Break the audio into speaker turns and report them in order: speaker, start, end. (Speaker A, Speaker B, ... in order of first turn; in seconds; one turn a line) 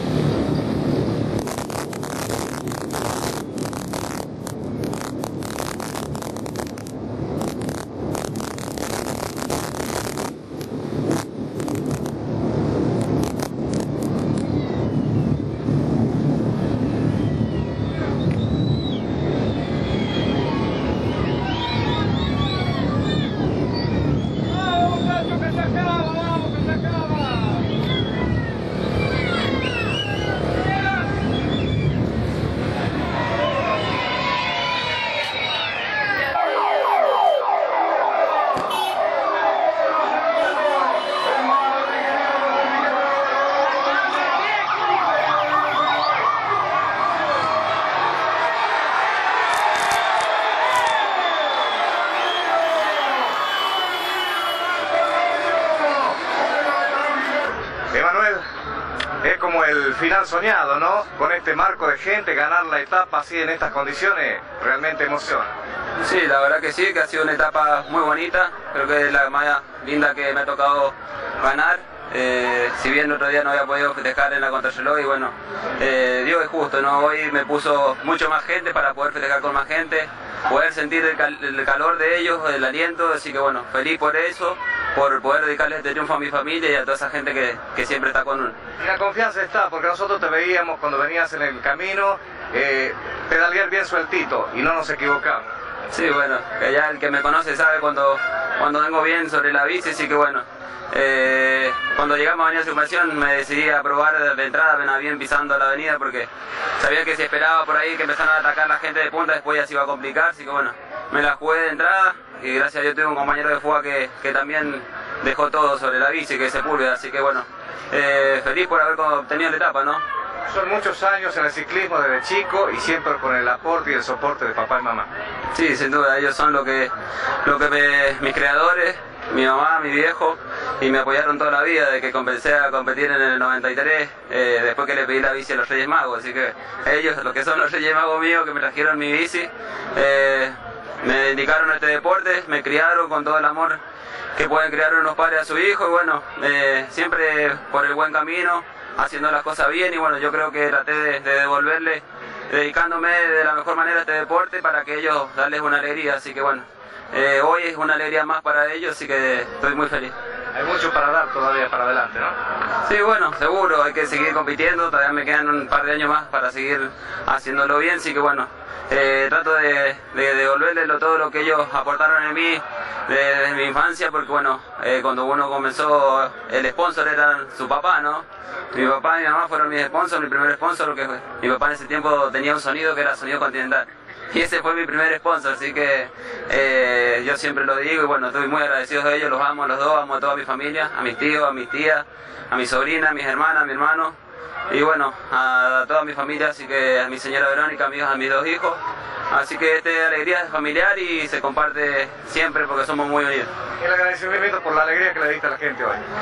Speaker A: 57.9-58.5
Speaker A: 59.2-65.5
Speaker B: 66.0-88.5
Speaker A: 88.8-95.4
Speaker B: 95.9-120.0
Speaker A: 120.5-125.1
Speaker B: 125.5-126.9
Speaker B: 127.4-143.8
Speaker B: 144.3-160.1
Speaker A: 160.5-162.3
Speaker B: 162.8-194.2
Speaker B: 194.7-198.8
Speaker B: 199.3-203.5
Speaker A: 203.8-206.0